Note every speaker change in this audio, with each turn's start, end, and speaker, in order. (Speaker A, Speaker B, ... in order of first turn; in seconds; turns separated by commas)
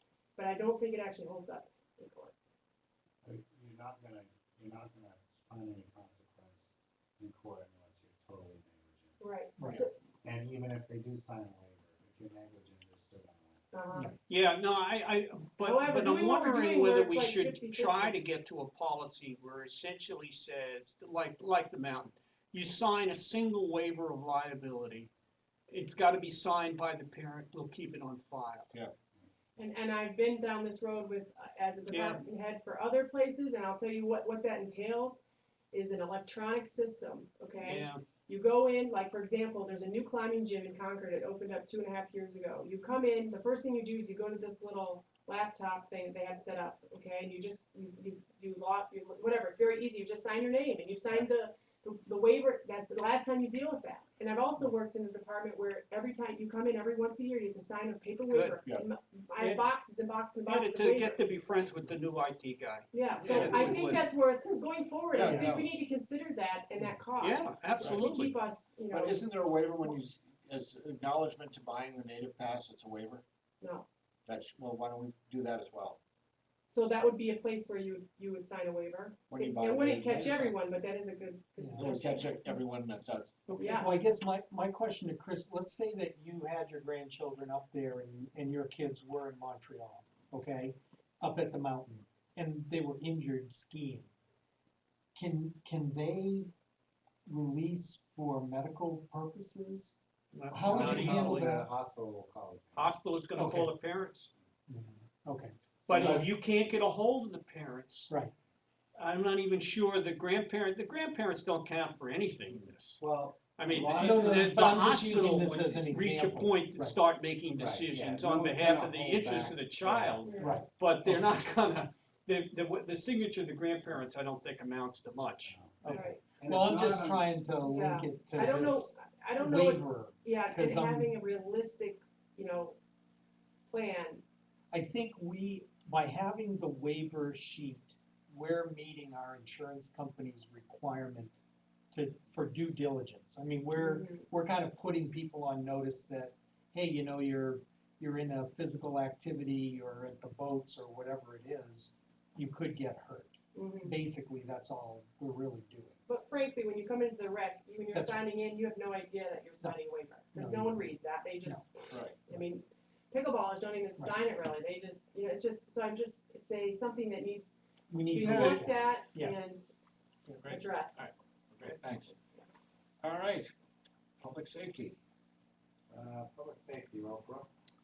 Speaker A: 0.4-2.3, Speaker B: 3.2-9.2, Speaker A: 9.2-9.9, Speaker C: 9.6-9.8, Speaker B: 9.7-13.6, Speaker A: 13.7-14.1, Speaker D: 14.3-25.1, Speaker A: 15.6-18.2, Speaker D: 25.7-28.7, Speaker A: 29.6-61.2, Speaker D: 31.9-32.2, Speaker D: 37.6-38.0, Speaker D: 58.3-58.6, Speaker D: 59.4-59.6, Speaker D: 60.5-64.1, Speaker A: 62.9-69.2, Speaker E: 63.2-64.0, Speaker E: 65.1-65.7, Speaker C: 65.2-65.5, Speaker D: 67.2-68.4, Speaker E: 68.9-73.2, Speaker A: 73.6-73.9, Speaker E: 74.3-76.0, Speaker A: 76.7-82.4, Speaker E: 79.3-80.6, Speaker C: 81.6-81.9, Speaker E: 81.8-83.6, Speaker C: 83.5-94.1, Speaker A: 83.5-84.0, Speaker C: 95.2-96.5, Speaker C: 97.3-100.0, Speaker D: 100.3-101.6, Speaker C: 100.5-101.7, Speaker B: 100.7-103.2, Speaker D: 102.8-104.3, Speaker C: 103.4-103.7, Speaker C: 104.7-106.3, Speaker D: 105.9-108.1, Speaker B: 105.9-106.3, Speaker D: 109.0-113.0, Speaker B: 113.0-114.7, Speaker D: 113.6-125.6, Speaker C: 113.9-117.0, Speaker B: 117.5-120.2, Speaker A: 120.2-120.6, Speaker C: 120.4-121.3, Speaker B: 125.5-127.3, Speaker C: 125.8-131.1, Speaker A: 125.9-126.2, Speaker A: 127.6-132.8, Speaker A: 133.7-134.2, Speaker C: 134.7-141.4, Speaker C: 141.9-156.0, Speaker A: 143.8-144.3, Speaker A: 153.6-154.0, Speaker A: 156.1-169.7, Speaker C: 157.9-158.2, Speaker C: 160.3-160.9, Speaker E: 161.9-162.2, Speaker C: 167.9-169.4, Speaker D: 168.3-168.6, Speaker E: 170.4-172.1, Speaker A: 170.4-171.1, Speaker E: 173.0-173.5, Speaker E: 174.2-175.0, Speaker B: 175.9-177.5